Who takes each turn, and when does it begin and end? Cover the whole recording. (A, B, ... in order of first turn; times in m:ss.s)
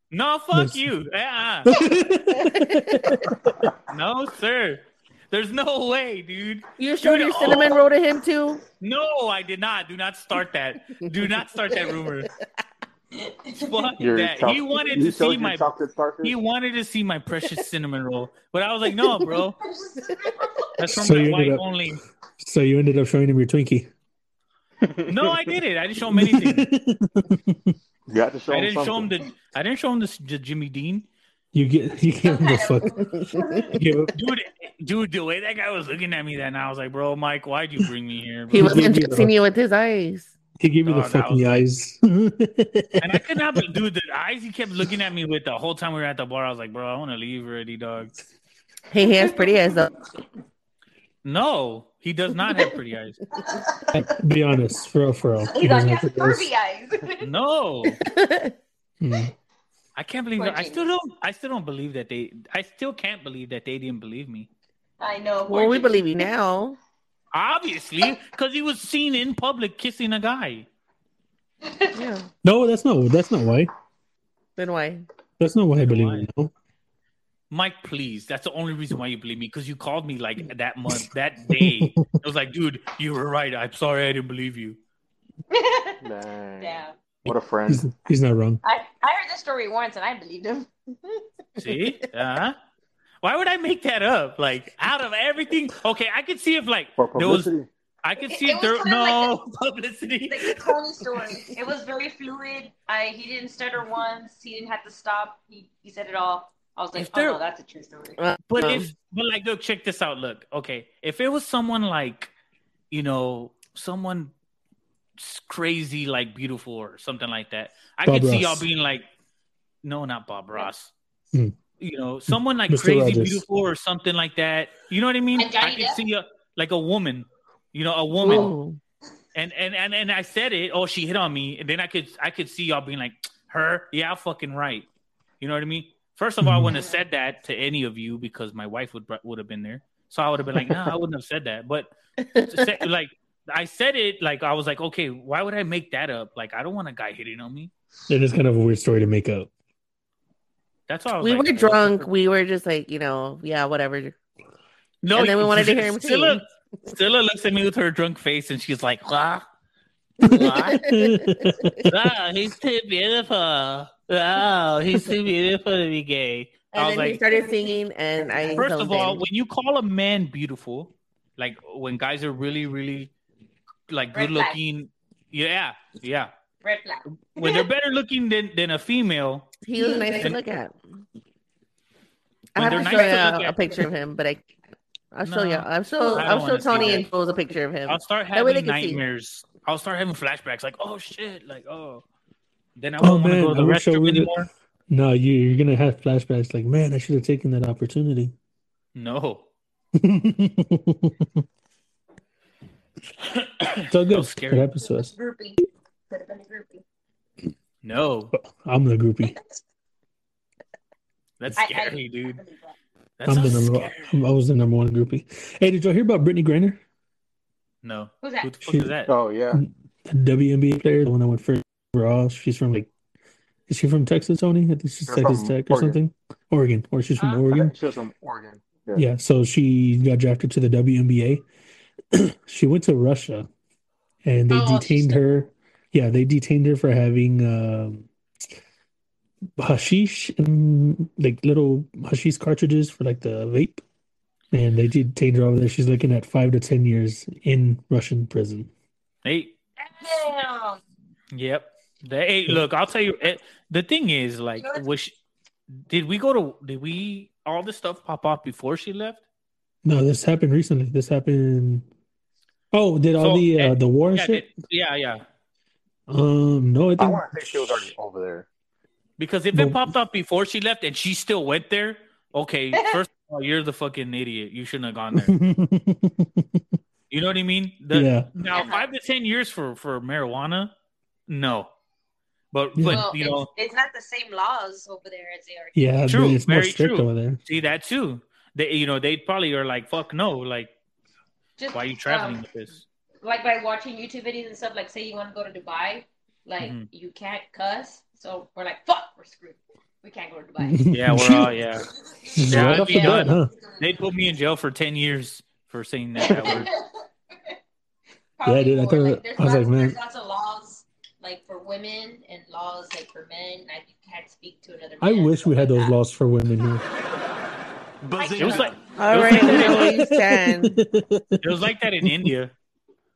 0:00.1-0:01.7 A
0:00.5-0:00.9 B
0:01.7-0:03.7 B
0:02.4-0:03.2 C
0:03.9-0:07.8 A
0:06.8-0:08.6 C
0:08.8-0:12.3 A
0:13.3-0:13.9 D
0:13.6-0:15.7 A
0:14.0-0:16.4 E
0:16.2-0:19.6 A
0:19.8-0:20.7 D
0:20.8-0:22.0 A
0:20.9-0:21.7 B
0:22.4-0:23.9 B
0:24.8-0:25.6 E
0:25.1-0:26.7 A
0:26.1-0:27.8 B
0:28.1-0:29.1 E
0:28.5-0:31.1 A
0:31.5-0:33.1 B
0:32.2-0:33.8 D
0:33.2-0:33.6 C
0:33.7-0:34.1 B
0:34.1-0:38.9 A
0:38.5-0:40.3 C
0:38.5-0:39.3 B
0:40.6-0:43.6 B
0:40.9-0:41.6 A
0:43.0-0:48.2 A
0:48.9-0:50.0 C
0:49.0-0:49.5 D
0:51.2-0:53.2 A
0:53.4-0:54.0 D
0:53.9-0:56.5 B
0:55.5-0:57.3 D
0:57.2-0:58.0 A
0:58.0-0:58.5 C
0:59.0-0:59.3 B
1:00.0-1:04.5 A
1:00.4-1:00.9 D
1:05.0-1:06.3 D
1:05.5-1:06.8 C
1:07.3-1:10.7 A
1:11.6-1:12.0 D
1:11.9-1:12.3 C
1:12.4-1:13.7 B
1:14.6-1:15.0 C
1:15.4-1:16.5 B
1:15.8-1:16.3 A
1:17.5-1:24.8 A
1:20.9-1:22.2 B
1:25.5-1:26.0 D
1:26.0-1:27.8 E
1:26.6-1:26.9 D
1:27.3-1:28.6 B
1:28.6-1:31.2 D
1:31.6-1:32.6 A
1:33.2-1:37.5 A
1:37.0-1:37.7 E
1:38.0-1:40.7 A
1:38.2-1:39.4 D
1:40.3-1:48.2 D
1:46.9-1:47.4 A
1:48.2-1:48.9 C
1:48.5-1:52.3 A
1:52.9-1:54.3 A
1:55.2-1:59.0 A
1:58.0-1:58.7 B
1:59.8-2:00.9 A
2:01.8-2:08.5 A
2:02.3-2:03.4 B
2:05.4-2:06.0 D
2:08.2-2:08.8 C
2:09.3-2:14.9 A
2:15.4-2:21.9 A
2:16.4-2:16.7 B
2:22.2-2:22.7 C
2:22.4-2:27.7 A
2:28.1-2:29.5 B
2:30.9-2:32.1 A
2:31.2-2:34.1 C
2:35.0-2:39.5 A
2:35.1-2:36.4 C
2:40.2-2:40.8 A
2:40.2-2:41.4 C
2:40.3-2:42.0 B
2:41.9-2:47.2 A
2:46.7-2:49.2 C
2:47.3-2:47.7 D
2:48.6-2:53.1 A
2:53.9-2:56.3 A
2:54.1-2:54.6 D
2:56.6-2:57.7 D
2:57.4-2:59.6 A
2:59.6-3:00.8 C
2:59.8-3:00.4 D
3:02.6-3:04.5 C
3:02.6-3:03.6 A
3:02.6-3:03.3 D
3:05.1-3:09.0 C
3:05.2-3:07.1 A
3:06.0-3:07.1 D
3:07.9-3:12.0 A
3:12.8-3:14.5 A
3:13.0-3:18.3 B
3:19.0-3:19.5 A
3:20.0-3:21.4 B
3:23.4-3:24.7 A
3:23.9-3:25.1 B
3:24.8-3:25.6 D
3:26.1-3:26.8 D
3:27.8-3:28.3 A
3:28.4-3:29.4 B
3:31.4-3:32.4 A
3:31.6-3:32.7 D
3:33.2-3:34.1 A
3:33.2-3:36.8 B
3:37.8-3:39.1 A
3:38.2-3:38.5 D
3:38.6-3:38.9 B
3:39.1-3:39.6 E
3:39.5-3:42.9 B
3:43.7-3:47.8 B
3:45.1-3:46.0 E
3:47.2-3:47.5 D
3:47.5-3:49.0 E
3:49.0-3:51.4 B
3:52.1-3:53.5 B
3:54.2-3:58.1 B
3:54.5-3:55.3 D
3:59.6-4:03.8 B
4:04.5-4:08.7 B
4:09.2-4:09.6 A
4:09.9-4:10.8 D
4:11.3-4:15.2 A
4:14.6-4:14.8 D
4:15.9-4:19.2 A
4:19.8-4:21.9 B
4:22.7-4:24.5 B
4:23.2-4:25.2 A
4:26.1-4:27.9 B
4:27.0-4:28.5 E
4:29.2-4:35.4 A
4:29.6-4:29.9 B
4:32.7-4:33.0 D
4:35.1-4:36.6 B
4:37.1-4:40.7 A
4:37.9-4:38.3 B
4:38.5-4:38.9 D
4:41.3-4:41.7 A
4:42.5-4:43.5 A
4:42.8-4:43.1 B
4:42.9-4:45.8 D
4:45.8-4:47.4 B
4:46.1-4:50.7 A
4:51.6-4:52.4 D
4:51.7-4:52.8 A
4:53.2-5:00.9 D
4:56.6-4:56.9 A
5:00.6-5:01.6 B
5:00.9-5:01.9 A
5:02.2-5:03.8 D
5:02.3-5:03.5 B
5:02.5-5:06.7 A
5:06.2-5:06.9 D
5:06.3-5:06.7 E
5:08.4-5:16.0 D
5:08.4-5:10.0 B
5:15.0-5:16.8 B
5:18.0-5:18.8 E
5:18.2-5:18.8 D
5:18.4-5:20.0 A
5:19.0-5:20.8 C
5:19.2-5:22.3 B
5:21.4-5:22.5 A